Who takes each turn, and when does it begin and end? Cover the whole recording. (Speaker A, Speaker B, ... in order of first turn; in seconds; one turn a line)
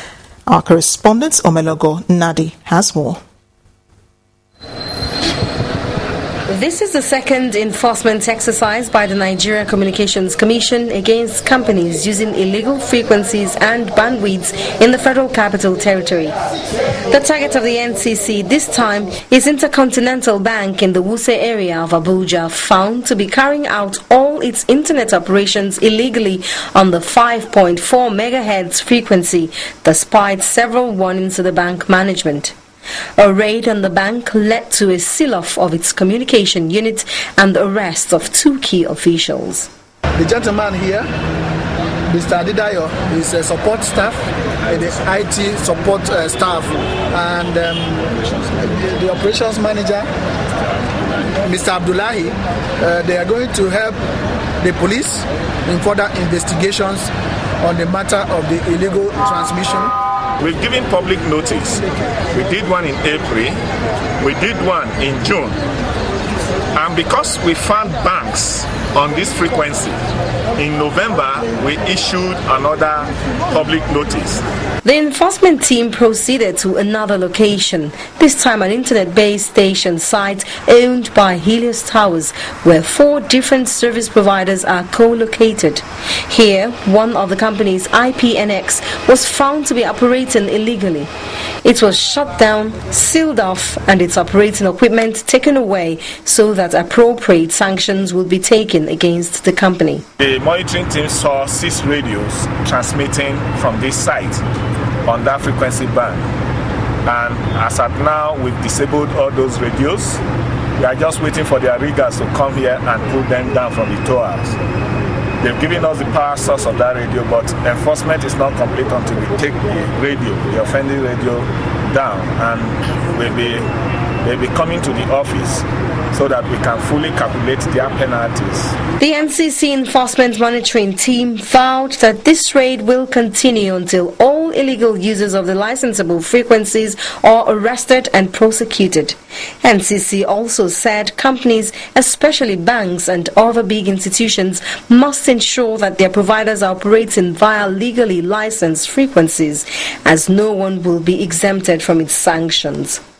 Speaker A: 0.5-3.2
Speaker B: 6.5-16.3
Speaker B: 17.1-32.5
Speaker B: 33.2-39.7
Speaker C: 40.2-41.1
Speaker C: 42.1-50.1
Speaker C: 51.4-54.0
Speaker C: 54.6-57.1
Speaker C: 57.6-59.9
Speaker D: 60.4-63.6
Speaker D: 64.2-65.6
Speaker D: 66.7-70.0
Speaker D: 70.5-74.4
Speaker B: 74.8-91.1
Speaker B: 91.6-100.0
Speaker D: 100.2-104.4
Speaker D: 105.0-106.2
Speaker D: 107.0-110.2
Speaker D: 110.8-114.6
Speaker D: 115.4-123.7
Speaker D: 124.2-128.8
Speaker B: 129.0-153.0